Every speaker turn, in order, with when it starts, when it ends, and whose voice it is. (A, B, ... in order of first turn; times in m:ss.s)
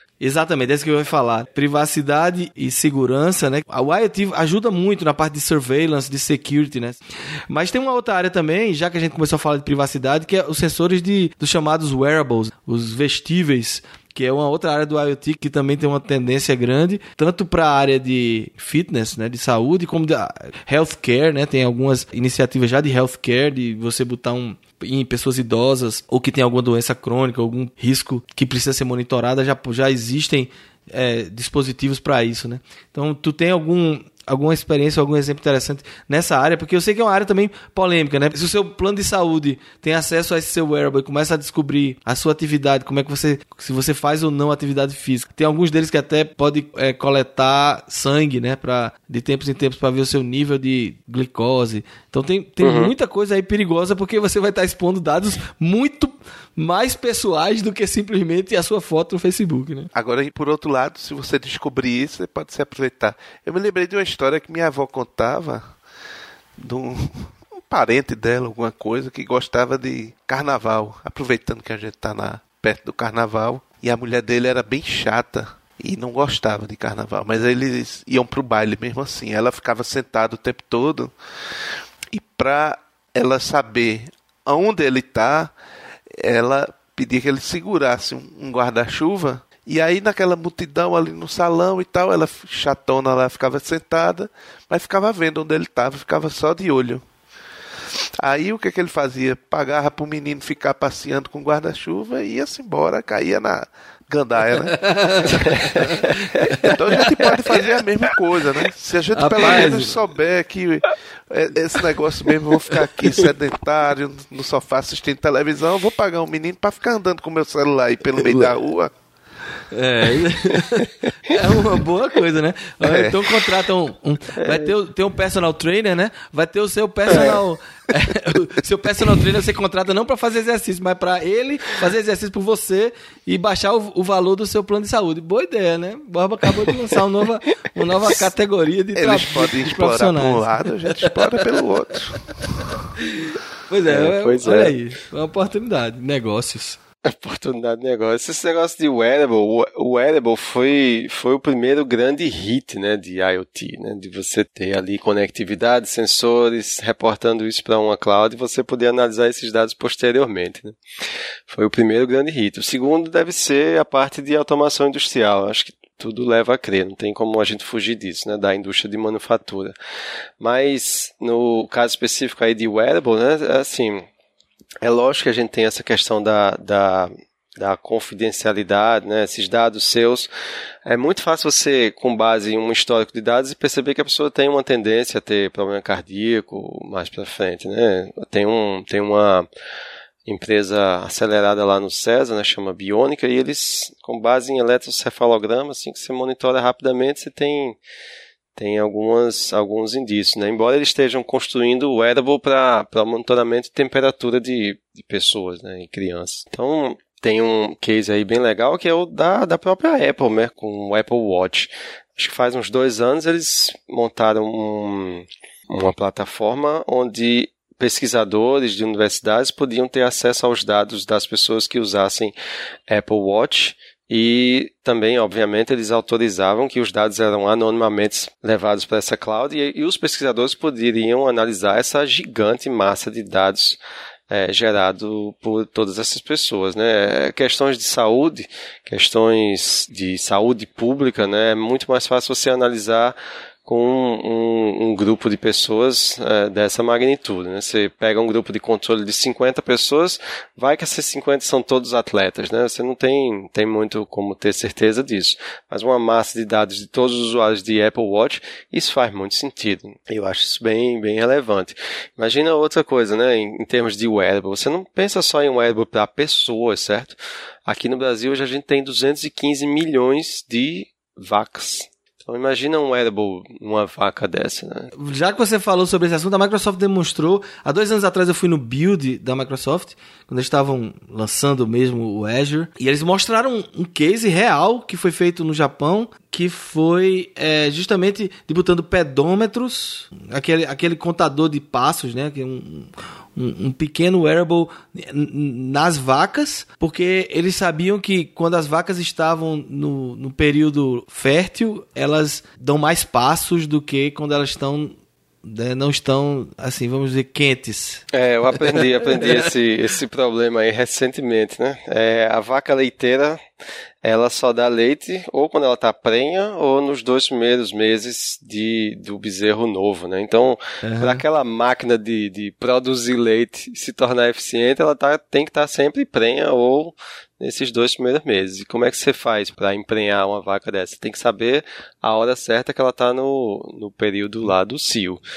0:00.2-0:59.9 A
0:52.6-0:52.9 B
0:59.9-1:05.7 C
1:06.6-1:21.1 C
1:22.1-1:25.5 C
1:26.1-1:37.0 C
1:38.2-1:45.0 C
1:44.7-1:46.7 A
1:45.4-1:45.7 B
1:45.7-1:46.1 C
1:46.6-1:58.9 C
1:49.1-1:50.0 A
1:58.2-1:58.5 A
1:59.7-2:21.2 A
2:02.8-2:03.2 C
2:04.4-2:04.7 B
2:07.1-2:07.4 B
2:18.9-2:22.8 C
2:22.7-2:26.8 A
2:23.9-2:24.8 B
2:27.0-2:40.8 B
2:41.5-2:49.7 B
2:50.4-2:54.0 B
2:54.8-3:00.3 B
3:00.8-3:09.5 B
3:10.2-3:17.8 B
3:18.6-3:42.3 B
3:42.9-3:53.8 B
3:54.3-4:34.9 B
4:35.0-5:08.0 A
5:08.1-5:13.4 B
5:08.6-5:09.5 A
5:14.0-5:35.2 B
5:20.8-5:21.2 A